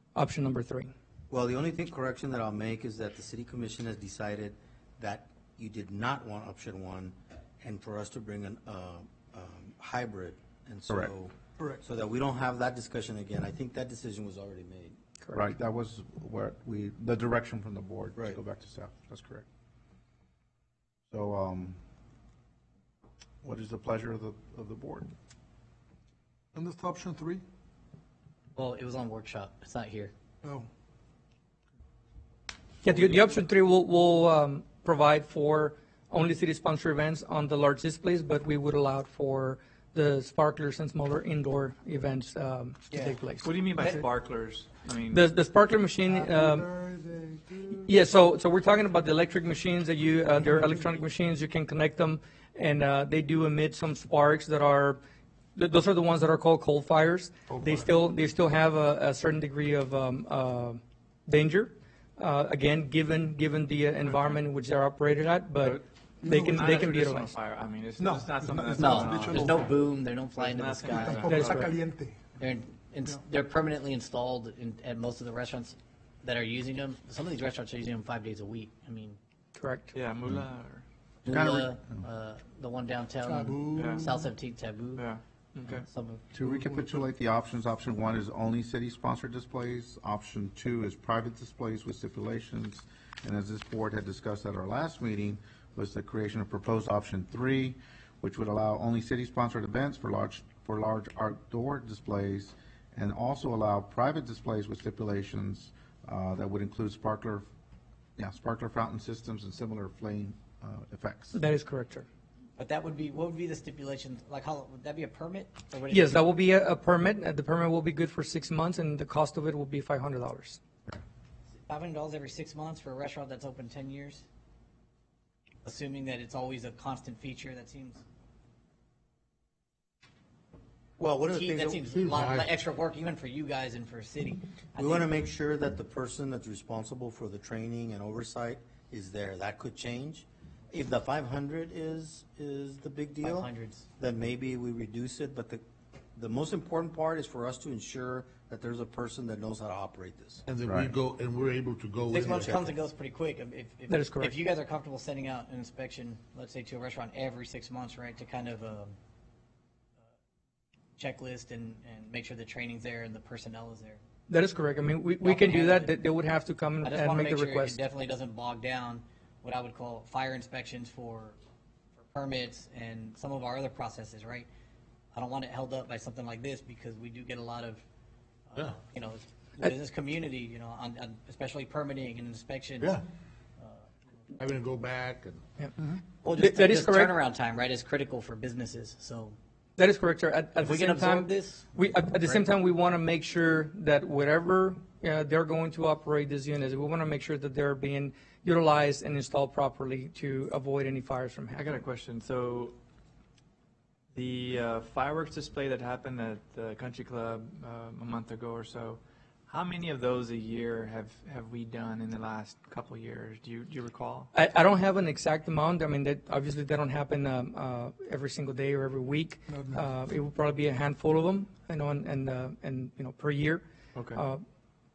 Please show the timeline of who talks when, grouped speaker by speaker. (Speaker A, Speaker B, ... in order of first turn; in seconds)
Speaker A: 0.1-0.9, 32.8-44.0, 45.1-46.7, 47.8-55.0, 55.5-67.3, 71.3-71.7, 79.5-79.9, 111.3-112.1, 115.9-120.6, 153.9-154.4, 164.3-167.8, 186.3-187.2, 189.8-201.7, 214.3-224.4
Speaker B: 1.3-15.0, 131.0-131.9, 134.8-145.6, 146.1-150.4, 152.2-152.6
Speaker C: 10.9-11.1, 15.3-19.4, 21.1-21.8, 23.4-25.1, 81.3-81.8, 86.3-107.5, 108.2-111.4, 150.6-151.0
Speaker D: 26.6-27.4, 30.4-30.7, 46.1-47.8, 57.5-57.9, 68.2-69.6, 71.2-72.1, 83.3-84.2, 219.5-219.8
Speaker E: 28.5-30.1, 42.9-43.2, 68.8-71.4, 72.4-79.2, 81.2-85.1, 85.6-86.2, 112.6-116.2, 121.7-124.2, 125.6-128.0, 131.3-135.1, 143.2-143.9, 152.1-158.9, 161.0-164.0, 165.2-165.9, 166.8-171.4, 171.9-174.5, 175.1-177.8, 178.5-183.0, 183.6-183.9, 186.2-189.4, 190.6-192.4
Speaker F: 43.4-45.2, 65.6-69.7, 70.3-71.7, 79.9-80.8, 83.7-84.1, 85.0-85.9, 201.6-202.7, 204.1-214.3, 223.9-224.2
Speaker G: 131.9-132.5, 150.5-152.6, 184.3-185.4